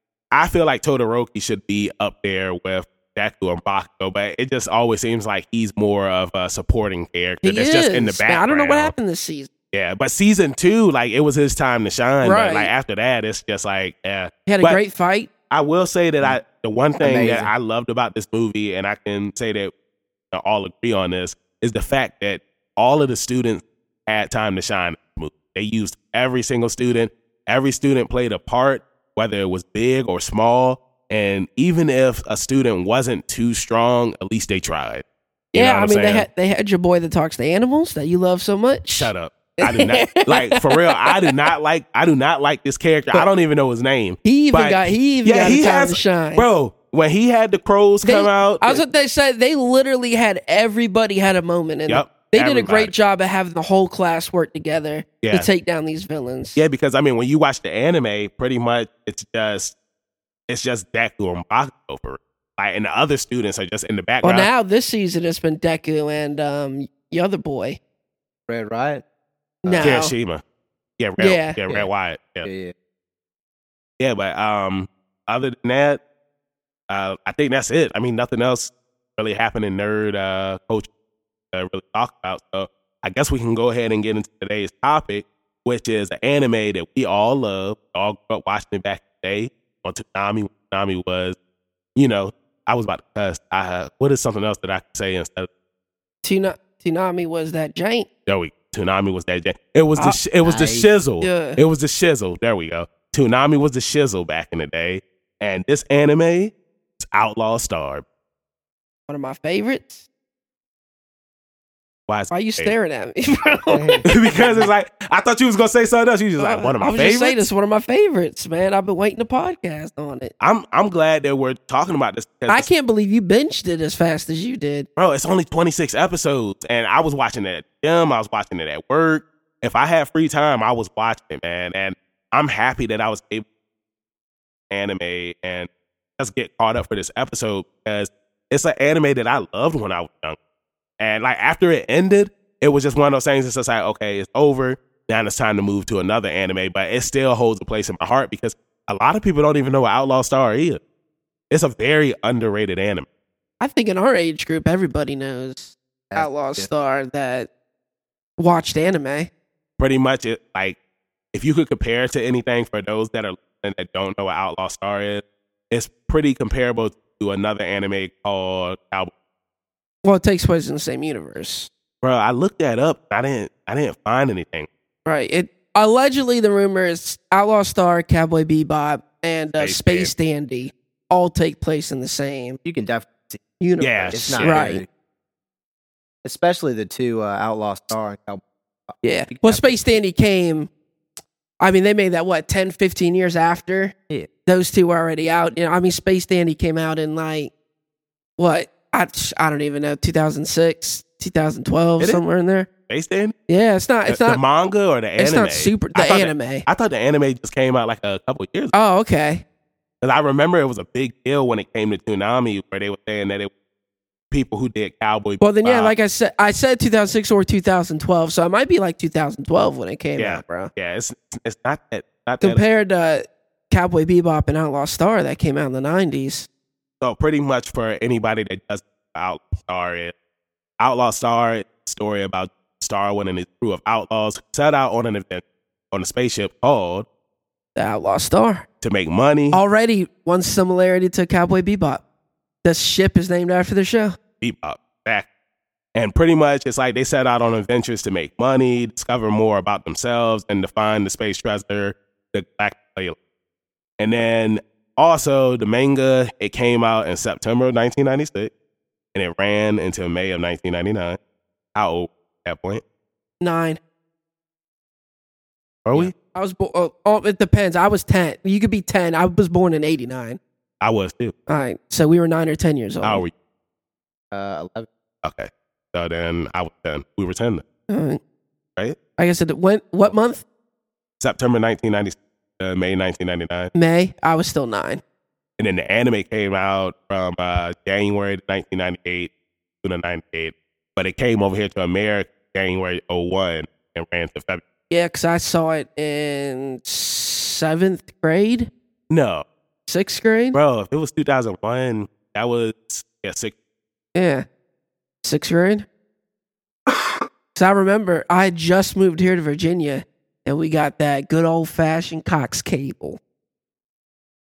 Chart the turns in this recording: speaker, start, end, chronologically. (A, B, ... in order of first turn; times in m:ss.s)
0:00.3-0:08.9 A
0:07.4-0:09.5 B
0:09.7-0:14.8 A
0:12.2-0:12.7 B
0:14.4-0:15.3 B
0:15.5-0:19.7 A
0:17.0-0:17.5 C
0:20.3-0:36.3 A
0:35.5-0:41.3 B
0:38.9-0:48.8 A
0:44.2-0:46.4 B
0:48.0-0:56.6 B
0:51.9-0:52.9 A
0:55.2-0:55.5 A
0:56.6-0:59.7 A
1:00.5-1:04.5 A
1:04.2-1:07.8 B
1:08.5-1:09.0 C
1:09.6-1:10.0 C
1:09.6-1:10.1 B
1:09.8-1:10.4 A
1:11.0-1:12.5 A
1:11.2-1:11.6 B
1:12.4-1:12.7 C
1:14.0-1:16.0 A
1:16.9-1:20.9 A
1:21.5-1:31.4 A
1:31.9-1:35.5 A
1:36.2-1:38.1 B
1:38.3-1:48.0 A
1:40.4-1:40.9 C
1:41.2-1:41.6 B
1:49.1-1:50.0 B
1:52.1-1:52.7 A
1:52.3-1:54.1 B
1:53.7-1:54.0 C
1:54.0-1:57.4 A
1:56.4-2:00.3 B
2:00.4-2:02.7 A
2:02.5-2:04.9 B
2:05.0-2:13.4 A
2:14.7-2:20.4 A
2:21.0-2:30.8 A
2:31.5-2:33.0 A
2:33.6-2:37.5 B
2:36.1-2:36.7 C
2:38.4-2:39.3 B
2:39.8-2:40.8 A
2:41.3-2:49.1 A
2:50.0-2:51.7 B
2:52.0-2:54.7 A
2:55.0-3:02.6 B
2:59.6-3:00.1 A
3:02.6-3:03.4 C
3:03.6-3:04.8 B
3:03.8-3:04.6 A
3:04.1-3:04.9 C
3:06.2-3:09.8 C
3:09.0-3:10.7 B
3:11.6-3:13.9 B
3:14.4-3:17.5 B
3:18.4-3:22.7 B
3:22.9-3:23.3 A
3:23.5-3:24.4 B
3:24.1-3:28.7 A
3:25.2-3:26.6 B
3:28.7-3:29.4 B
3:30.0-3:33.5 A
3:34.3-3:35.9 A
3:35.4-3:40.7 B
3:40.2-3:42.6 A
3:42.4-3:46.5 B
3:47.0-3:50.1 A
3:50.8-3:57.0 A
3:57.8-3:58.6 B
3:58.8-3:59.6 A
3:59.5-4:02.0 B
4:02.6-4:04.2 B
4:04.4-4:05.2 A
4:05.9-4:13.2 A
4:14.0-4:18.5 A
4:19.1-4:21.2 A
4:21.7-4:22.8 A
4:23.4-4:23.8 B
4:25.8-4:26.1 A
4:26.2-4:30.4 B
4:30.8-4:31.3 A
4:31.5-4:33.2 B
4:33.0-4:33.3 A
4:34.3-4:34.9 C
4:35.2-4:37.6 A
4:37.9-4:38.2 B
4:39.2-4:40.4 B
4:41.2-4:43.7 A
4:43.7-4:45.0 B
4:45.6-4:49.3 A
4:49.8-4:54.6 A
4:54.9-4:58.7 B
4:59.1-4:59.4 A
4:59.9-5:00.6 B
5:00.5-5:03.5 A
5:04.1-5:04.4 B
5:05.2-5:05.8 B
5:07.5-5:13.2 B